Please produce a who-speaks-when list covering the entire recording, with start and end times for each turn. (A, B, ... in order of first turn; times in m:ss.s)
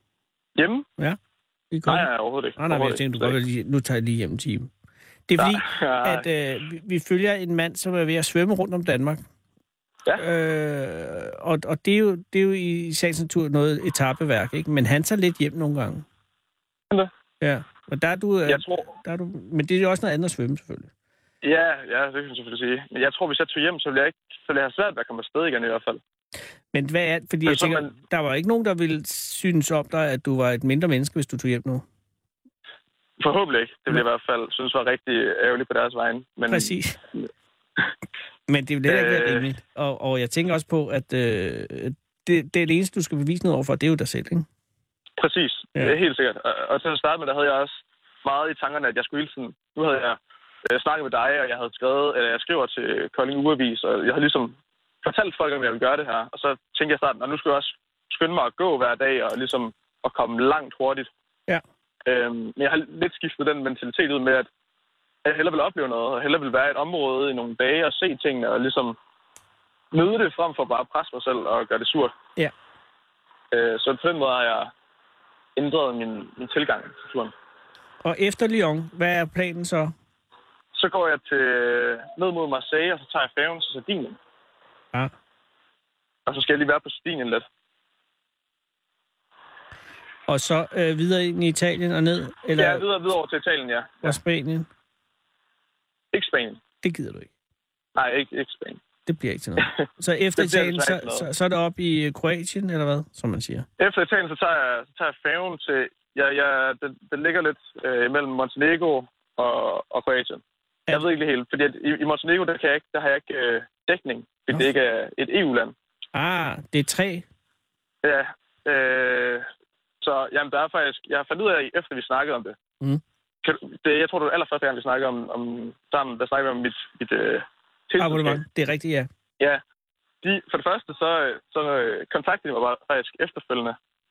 0:00.6-0:00.9 A
0:01.7-0:04.7 B
0:01.9-0:03.4 A
0:05.3-0:09.2 B
0:05.4-0:06.3 A
0:10.2-0:16.0 B
0:17.4-0:20.9 B
0:18.5-0:18.9 A
0:21.4-0:26.0 A
0:26.7-0:31.8 B
0:27.4-0:27.9 A
0:33.2-0:37.2 A
0:36.5-0:37.0 B
0:38.5-0:44.4 B
0:38.9-0:39.5 A
0:45.2-1:01.1 A
1:02.0-1:04.5 A
1:05.2-1:09.0 A
1:09.9-1:12.1 A
1:13.5-1:14.7 A
1:15.6-1:17.3 A
1:18.0-1:19.9 B
1:20.7-1:24.2 A
1:26.2-1:27.4 A
1:30.3-1:32.8 B
1:32.6-1:34.2 A
1:34.0-1:34.7 B
1:36.1-1:36.6 A
1:36.8-1:37.3 B
1:37.9-1:38.8 A
1:39.0-1:43.6 B
1:40.4-1:41.3 A
1:43.8-1:55.7 A
1:56.1-1:57.2 B
1:58.0-1:59.5 A
2:00.0-2:02.6 A
2:03.4-2:08.4 A
2:08.0-2:09.1 B
2:10.2-2:13.8 A